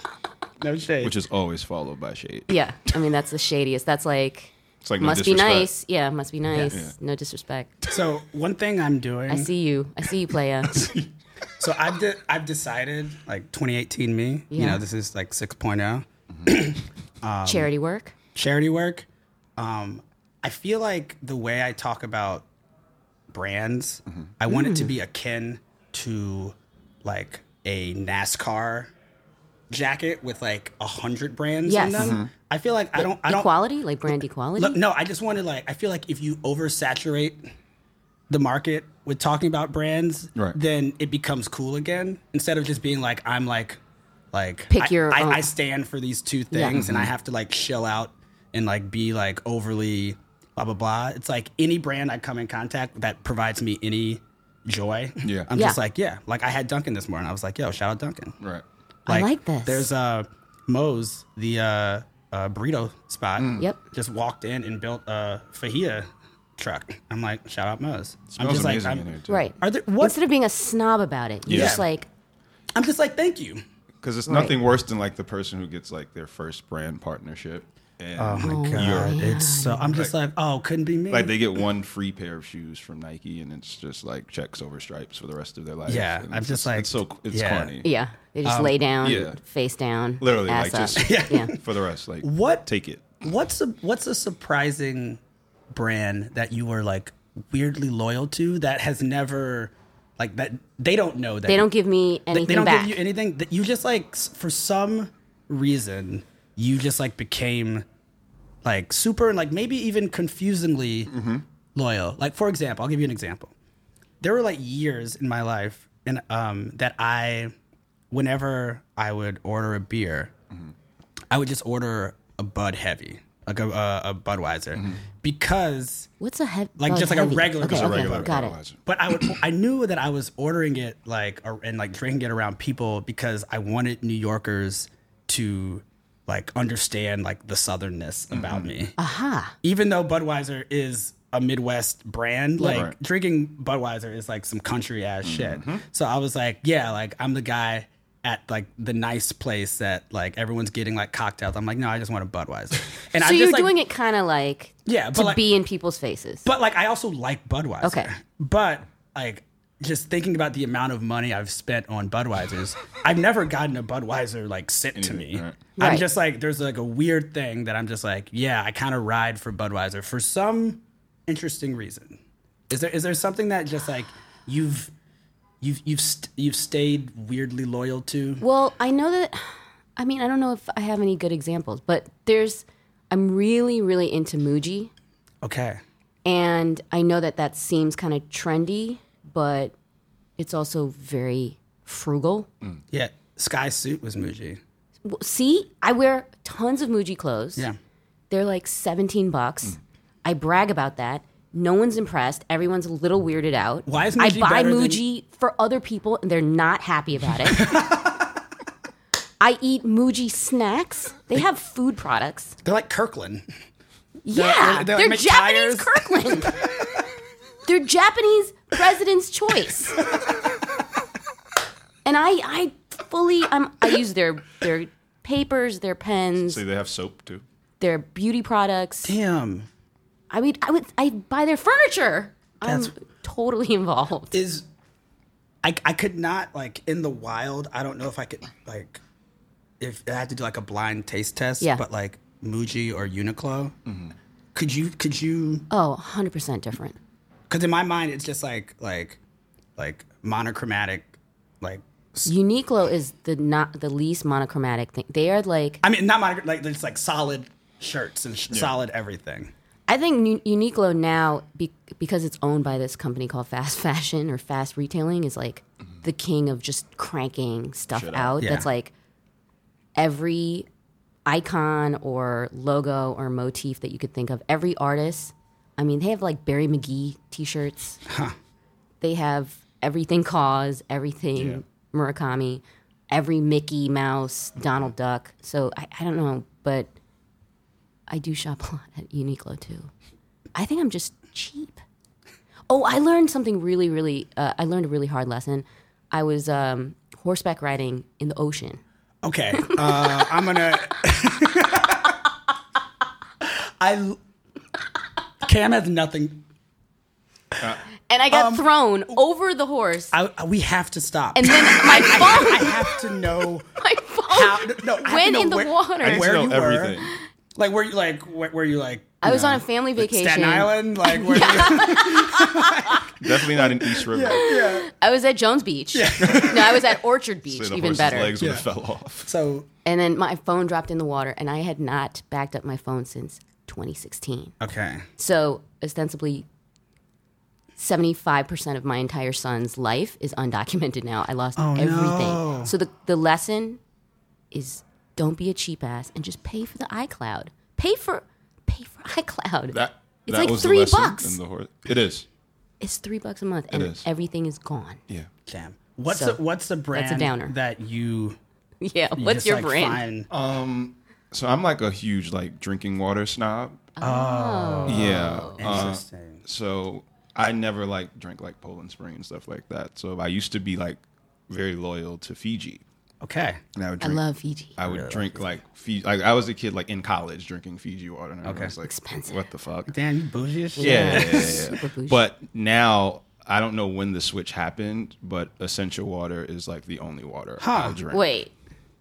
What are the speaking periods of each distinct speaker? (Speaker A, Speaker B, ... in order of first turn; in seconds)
Speaker A: 0.6-1.1, 7.9-9.5, 11.6-17.7, 18.3-22.5, 23.3-28.9, 29.7-33.5, 34.6-37.4, 38.3-43.8, 44.3-58.4, 59.1-69.1, 69.6-70.2, 71.5-71.8, 72.8-73.6, 78.2-81.3, 85.9-87.7, 88.4-88.8, 91.0-91.6, 92.2-92.7, 93.2-95.2, 95.7-101.7, 102.3-107.8, 108.6-111.1, 111.7-113.5, 114.2-117.5, 118.1-120.3, 121.3-126.1, 126.8-138.9, 139.6-153.7, 154.8-155.5, 156.4-174.9, 175.6-178.4, 185.4-185.8, 192.9-194.6, 203.8-205.0, 207.4-208.4, 212.6-213.4, 214.3-216.8, 229.0-229.7, 232.6-232.9, 234.3-234.7, 235.6-239.0, 239.8-243.7, 244.5-245.7, 247.5-249.2, 249.8-252.3, 255.8-259.5, 268.4-268.7, 278.1-278.3, 299.2-302.2, 303.4-304.2, 305.4-306.4, 308.3-308.6, 310.1-313.7, 314.3-317.0, 317.6-324.9, 325.9-326.8, 328.4-328.6, 329.2-329.7, 334.6-335.1, 341.6-342.7, 355.5-358.4, 359.1-360.3, 364.0-366.4, 373.2-373.6, 374.8-375.5, 378.4-378.7, 379.9-381.7, 387.6-388.0
Speaker B: 1.0-2.9, 4.8-5.7, 6.6-6.9, 16.3-16.6, 32.0-32.3, 46.7-47.1, 55.2-55.5, 63.4-63.7, 68.3-69.5, 71.5-71.8, 74.0-79.3, 81.1-87.9, 89.0-89.4, 90.2-93.2, 111.1-111.4, 124.7-125.0, 127.7-128.8, 138.3-138.7, 142.6-142.9, 145.2-145.8, 164.9-165.6, 226.4-227.4, 243.8-244.1, 267.9-268.4, 281.4-281.6, 316.0-317.1, 323.1-324.5, 326.2-329.3, 349.7-352.3, 353.7-354.1, 360.3-363.9, 364.9-372.8, 373.7-374.2, 374.8-380.0, 380.8-388.2
Speaker C: 2.5-7.7, 9.3-10.9, 14.5-14.8, 17.4-18.1, 24.5-24.9, 31.7-32.2, 33.0-34.8, 44.7-45.5, 46.5-46.8, 59.0-59.9, 69.3-72.1, 74.3-74.5, 78.4-79.9, 87.8-91.5, 101.5-103.0, 126.2-128.6, 139.0-139.5, 153.2-156.5, 157.8-158.1, 165.8-166.0, 178.4-184.9, 186.2-189.7, 190.4-192.5, 195.0-197.7, 198.3-207.7, 209.4-212.6, 214.2-216.6, 217.6-220.0, 222.0-226.6, 227.8-229.1, 230.3-234.4, 245.7-247.0, 252.2-255.8, 259.9-268.9, 269.9-270.7, 271.2-278.0, 279.0-286.9, 288.1-289.9, 290.5-291.8, 292.7-298.8, 299.6-300.2, 308.1-310.1, 311.3-313.0, 313.7-316.3, 319.2-323.0, 324.3-328.3, 329.8-334.5, 335.2-336.4, 337.8-343.8, 344.5-351.4, 352.8-355.0, 356.1-356.4, 356.9-357.5, 358.8-360.0, 364.0-365.8, 374.0-374.8, 378.8-379.4, 380.8-382.2, 388.1-388.5